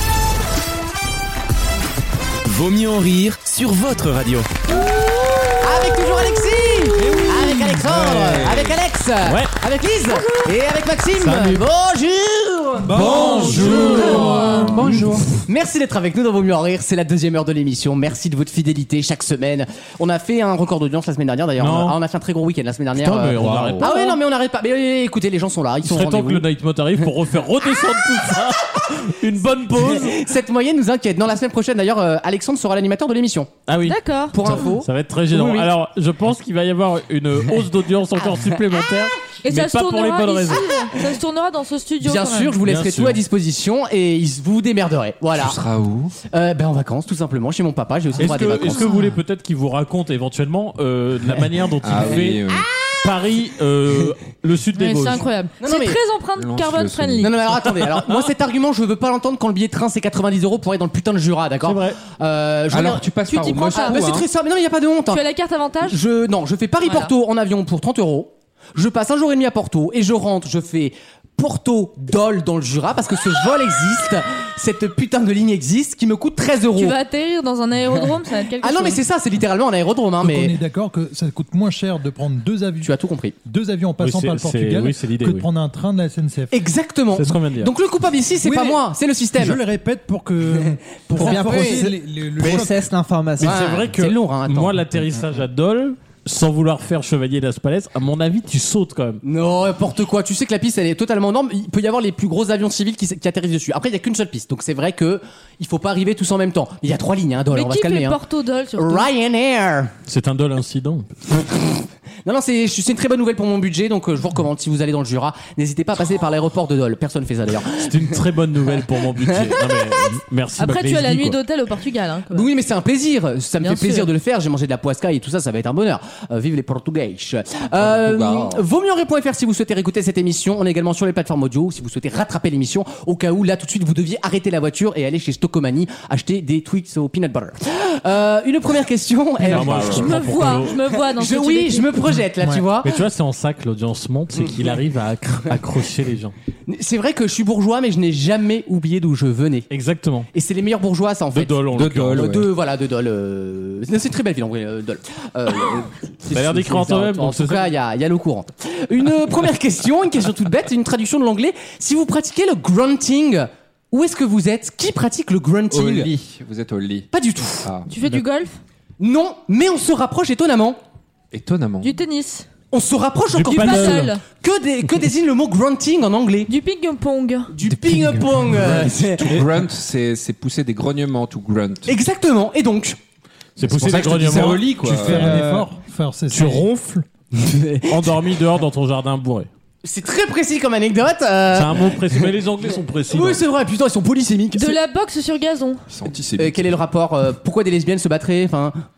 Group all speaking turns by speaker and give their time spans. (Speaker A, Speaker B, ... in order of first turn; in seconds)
Speaker A: 2.5-4.5
Speaker B: 5.6-14.6, 15.5-26.5, 29.7-33.5, 34.3-35.7, 38.2-38.5, 42.0-45.6, 46.3-48.9, 55.6-56.0, 57.2-65.2, 65.8-76.9, 78.6-80.5, 82.8-83.3, 86.5-89.6, 91.2-91.9, 93.4-94.8, 99.2-108.2, 108.8-109.9, 111.3-118.2, 119.4-119.8, 122.3-143.0, 146.7-149.7, 150.3-151.6, 152.1-166.1, 167.1-167.7, 169.0-170.8, 172.7-176.5, 177.5-179.4, 181.9-183.0, 187.3-188.2, 189.8-192.4, 193.1-194.8, 196.4-198.8
Speaker C: 7.1-7.5, 13.2-14.8, 80.2-82.9, 83.4-86.5, 88.4-88.8, 89.3-92.9, 184.9-186.8
Speaker D: 7.7-8.8, 12.9-15.2, 45.3-46.1, 51.8-52.7, 56.3-57.4, 62.7-64.2, 127.7-128.7, 151.7-152.5, 165.7-167.1, 167.6-167.9, 171.3-171.9, 178.7-182.0, 183.6-185.4, 195.9-196.8
Speaker E: 9.2-9.5, 11.2-11.6, 13.0-15.3, 21.6-22.0, 23.0-23.9, 25.9-30.2, 33.7-40.6, 42.6-43.2, 48.2-52.4, 53.0-55.2, 61.6-62.0, 84.0-85.4, 87.1-87.7, 93.4-99.2, 110.1-111.1, 117.8-121.4, 139.5-140.7, 142.8-146.3, 149.7-150.3, 151.3-152.3, 156.3-157.8, 173.3-174.1, 183.6-185.2, 186.3-187.0, 187.9-189.5, 191.5-193.4
Speaker F: 12.9-14.4, 23.4-23.8, 91.2-93.8, 139.4-139.9, 142.4-142.7, 177.7-178.8, 185.0-185.8
Speaker G: 14.1-14.8, 23.8-24.2, 33.9-34.6, 39.4-42.6, 48.6-49.2, 54.8-57.3, 63.3-64.1, 65.1-66.0, 66.8-67.1, 76.8-79.0, 107.5-109.1, 120.6-122.5, 123.6-124.1, 139.9-141.9, 167.9-168.6, 171.8-172.5, 173.5-174.2, 176.5-177.5, 194.5-195.8